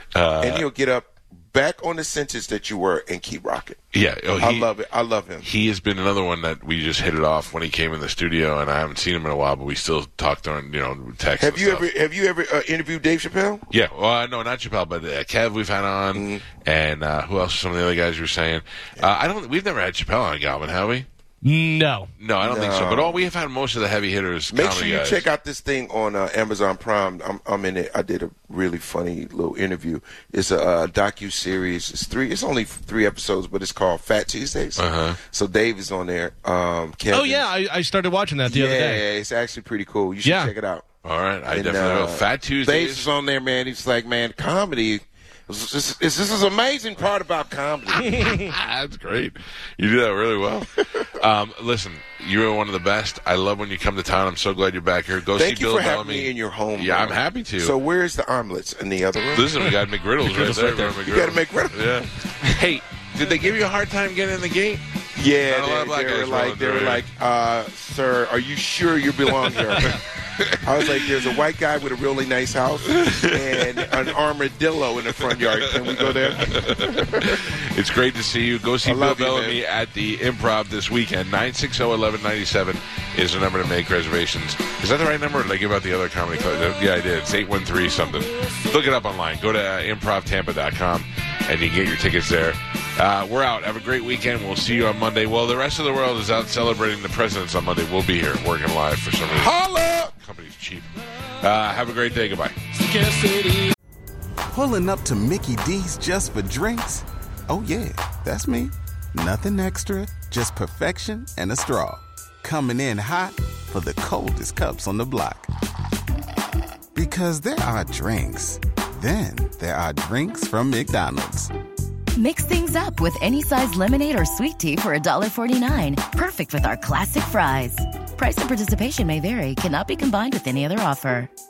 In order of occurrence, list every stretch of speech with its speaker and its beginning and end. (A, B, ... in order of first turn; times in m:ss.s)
0:00.1-0:00.6 A
0:00.4-0:03.8 B
0:03.9-0:04.7 A
0:04.4-0:05.5 B
0:05.4-0:11.9 A
0:11.4-0:13.6 B
0:13.7-0:21.1 A
0:16.1-0:16.4 B
0:21.4-0:22.1 C
0:22.2-0:25.2 A
0:22.4-0:23.3 B
0:24.5-0:37.5 B
0:34.8-0:35.2 A
0:37.1-0:39.0 C
0:38.5-0:40.9 B
0:40.2-0:40.5 C
0:41.0-0:43.1 A
0:41.5-0:48.4 B
0:48.3-0:57.7 A
0:55.3-0:59.7 B
0:59.3-1:04.8 A
1:00.3-1:00.8 C
1:00.8-1:01.9 B
1:05.2-1:10.0 B
1:05.5-1:07.0 A
1:09.7-1:11.1 A
1:10.6-1:17.4 B
1:12.9-1:14.1 A
1:15.3-1:39.6 A
1:18.8-1:19.6 B
1:39.3-1:40.1 B
1:40.1-1:42.6 A
1:42.8-1:43.7 C
1:44.5-1:55.5 D
1:56.9-2:01.5 D
2:02.2-2:11.3 E